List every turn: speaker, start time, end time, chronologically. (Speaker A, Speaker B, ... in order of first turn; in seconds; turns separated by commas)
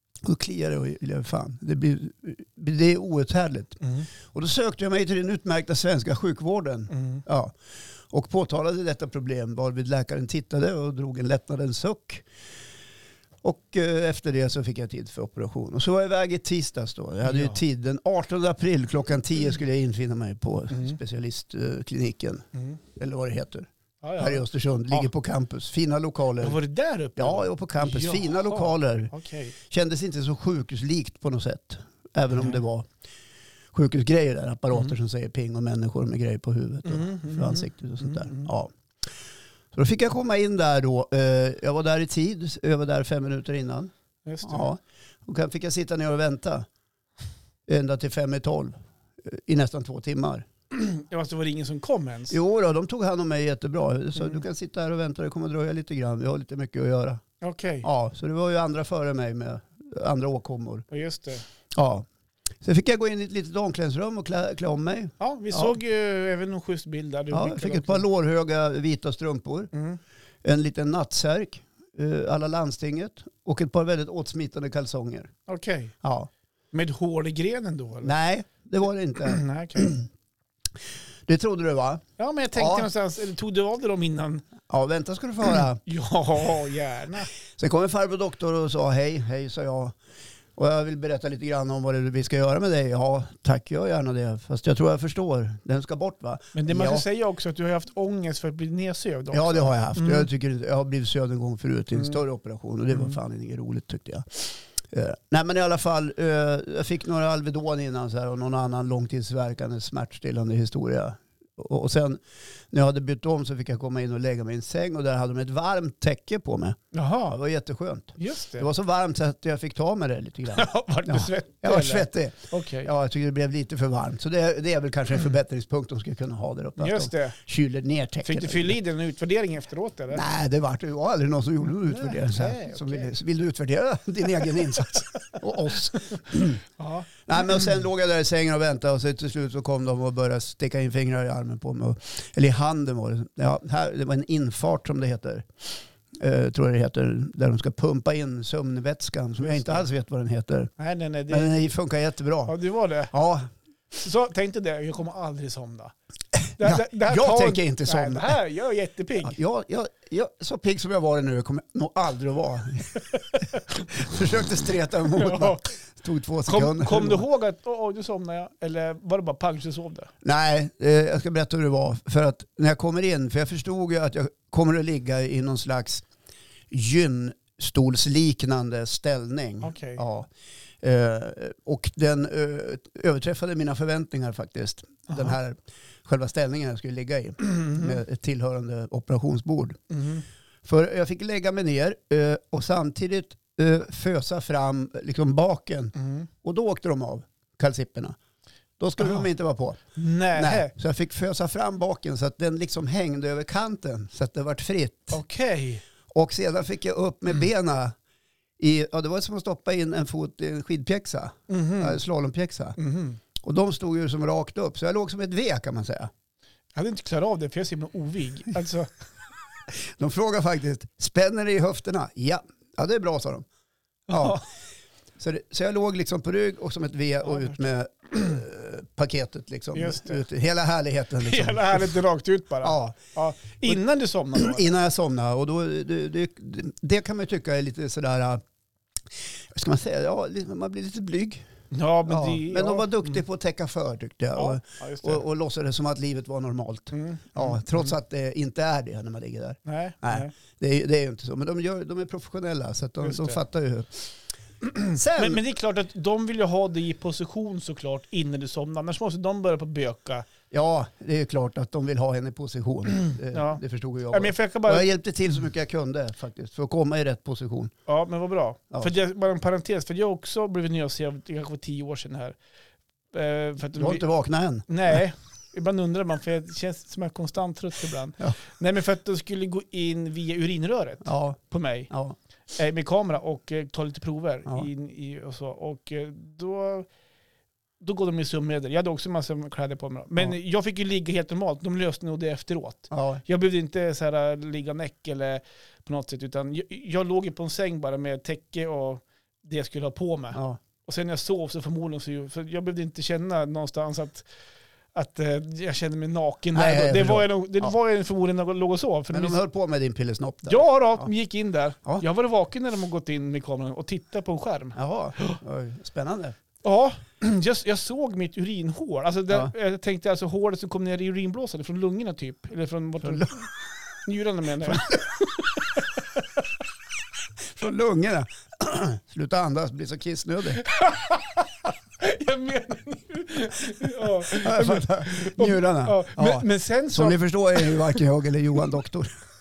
Speaker A: 0.2-7.5, Speaker B: 6.9-7.2, Speaker A: 8.1-12.2, Speaker A: 13.4-26.6, Speaker B: 17.2-17.6, Speaker B: 24.0-25.1, Speaker B: 26.4-29.5, Speaker A: 27.2-29.1, Speaker A: 29.7-32.9, Speaker B: 32.3-32.6, Speaker A: 33.7-38.7, Speaker B: 36.9-38.5, Speaker A: 39.7-43.9, Speaker B: 44.2-44.7, Speaker A: 44.4-46.7, Speaker A: 47.7-50.5, Speaker B: 50.7-52.4, Speaker A: 52.3-57.2, Speaker B: 57.4-57.9, Speaker A: 57.8-60.9, Speaker B: 60.9-61.4, Speaker A: 61.7-62.0, Speaker A: 62.6-65.8, Speaker B: 65.2-68.0, Speaker A: 67.3-69.7, Speaker B: 69.7-70.0, Speaker A: 70.4-75.3, Speaker B: 75.5-75.9, Speaker A: 76.0-76.3, Speaker B: 76.7-78.1, Speaker A: 78.0-80.1, Speaker B: 79.2-79.9, Speaker A: 81.3-82.0, Speaker B: 82.2-84.5, Speaker A: 82.5-82.9, Speaker A: 84.7-85.8, Speaker B: 85.5-87.3, Speaker A: 87.6-89.9, Speaker A: 90.5-97.0, Speaker B: 96.5-100.3, Speaker A: 99.3-128.8, Speaker B: 116.9-117.3, Speaker B: 118.2-118.7, Speaker B: 120.5-122.9, Speaker B: 126.8-127.3, Speaker B: 128.2-130.2, Speaker A: 130.1-136.6, Speaker B: 131.9-133.2, Speaker B: 136.8-137.6, Speaker A: 137.2-145.5, Speaker A: 146.2-150.7, Speaker B: 149.4-149.8, Speaker B: 150.8-151.6, Speaker A: 151.3-152.5, Speaker B: 152.4-153.1, Speaker A: 153.1-153.5, Speaker B: 153.9-155.9, Speaker A: 156.3-158.4, Speaker B: 156.6-159.4, Speaker A: 159.2-167.2, Speaker B: 165.1-165.7, Speaker B: 166.4-170.1, Speaker A: 170.2-176.1, Speaker A: 176.7-180.3, Speaker B: 179.6-180.0, Speaker A: 180.8-189.8, Speaker B: 185.1-185.4, Speaker B: 187.4-188.0, Speaker B: 189.9-190.2, Speaker A: 190.6-198.2, Speaker B: 195.9-196.3, Speaker A: 198.8-205.2, Speaker B: 199.0-199.3, Speaker B: 199.9-200.7, Speaker B: 205.1-205.8, Speaker A: 206.1-207.9, Speaker A: 208.6-212.8, Speaker B: 211.5-212.0, Speaker B: 212.8-213.2, Speaker A: 213.4-216.1, Speaker B: 216.7-218.9, Speaker A: 219.9-223.4, Speaker B: 224.1-224.4, Speaker A: 224.1-224.4, Speaker A: 225.2-232.0, Speaker B: 227.2-227.6, Speaker B: 229.7-230.2, Speaker B: 231.2-234.6, Speaker A: 232.6-233.0, Speaker A: 234.3-238.4, Speaker A: 239.5-241.5, Speaker B: 241.7-243.2, Speaker A: 242.1-254.1, Speaker B: 244.3-245.2, Speaker B: 246.9-247.9, Speaker B: 249.7-250.3, Speaker B: 253.0-253.4, Speaker B: 254.6-260.3, Speaker A: 254.9-255.4, Speaker A: 260.5-267.7, Speaker B: 263.2-264.9, Speaker B: 267.9-272.4, Speaker B: 273.1-274.0, Speaker A: 273.8-274.7, Speaker B: 274.7-281.9, Speaker A: 281.0-281.4, Speaker A: 281.9-282.1, Speaker B: 282.5-286.9, Speaker B: 287.8-304.2, Speaker A: 292.9-293.2, Speaker A: 300.3-300.6, Speaker B: 304.9-309.4, Speaker A: 306.5-307.7, Speaker A: 309.1-311.1, Speaker B: 310.5-315.4, Speaker A: 314.8-316.4, Speaker B: 316.6-323.5, Speaker A: 323.0-323.3, Speaker B: 324.0-326.4, Speaker A: 327.5-330.6, Speaker B: 330.6-338.0, Speaker A: 334.4-339.1